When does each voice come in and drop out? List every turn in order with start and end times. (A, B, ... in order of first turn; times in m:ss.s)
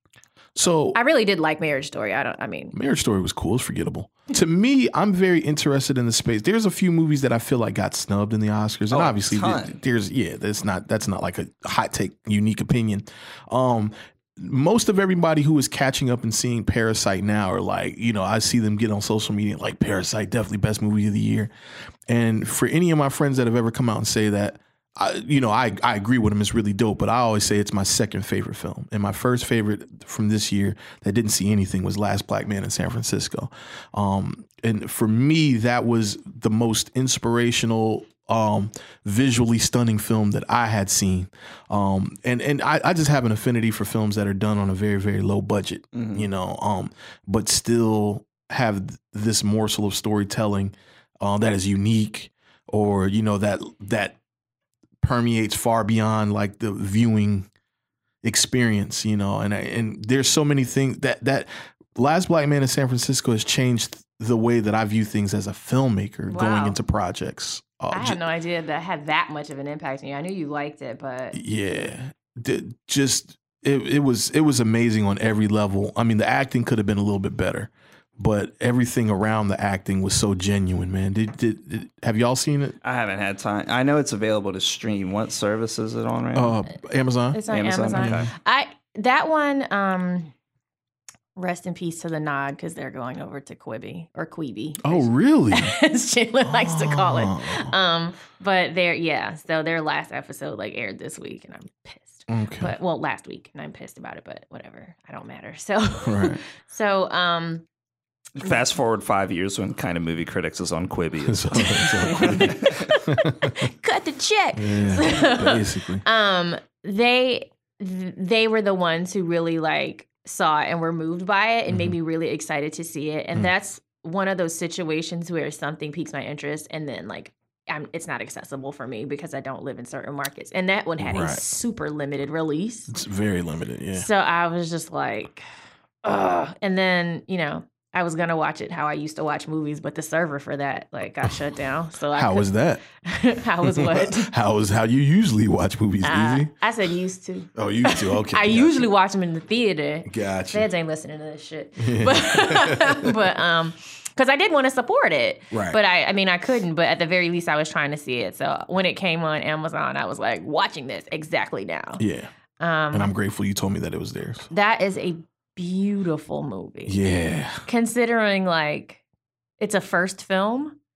0:00.6-0:01.0 A
0:00.9-0:02.8 B
0:02.7-0:21.5 A
0:08.9-0:09.8 C
0:22.1-0:54.2 A
0:45.9-0:46.3 C
0:55.0-0:57.5 A
0:58.2-1:08.2 A
1:06.3-1:06.8 B
1:07.9-1:11.4 B
1:11.3-1:22.8 A
1:22.8-1:26.6 C
1:26.3-1:27.4 A
1:27.3-1:30.3 B
1:27.5-1:28.3 C
1:27.9-1:28.3 A
1:31.4-1:47.6 B
1:34.8-1:35.8 A
1:36.4-1:37.7 A
1:42.3-1:42.8 A
1:46.0-1:46.4 A
1:48.4-1:52.9 C
1:51.2-1:53.7 A
1:51.6-2:13.0 B
1:54.6-1:56.0 A
2:01.7-2:02.0 A
2:11.0-2:11.4 A
2:12.9-2:14.1 A
2:13.9-2:15.4 B
2:16.0-2:24.3 B
2:22.1-2:22.8 A
2:23.6-2:26.5 A
2:26.0-2:42.0 B
2:27.6-2:28.9 A
2:30.1-2:30.7 A
2:31.8-2:33.2 A
2:35.5-2:35.8 A
2:42.0-2:42.3 A
2:42.6-2:43.1 B
2:42.9-2:44.5 A
2:44.5-2:47.0 B
2:46.9-2:47.6 A
2:47.6-2:49.0 B
2:49.6-2:50.8 B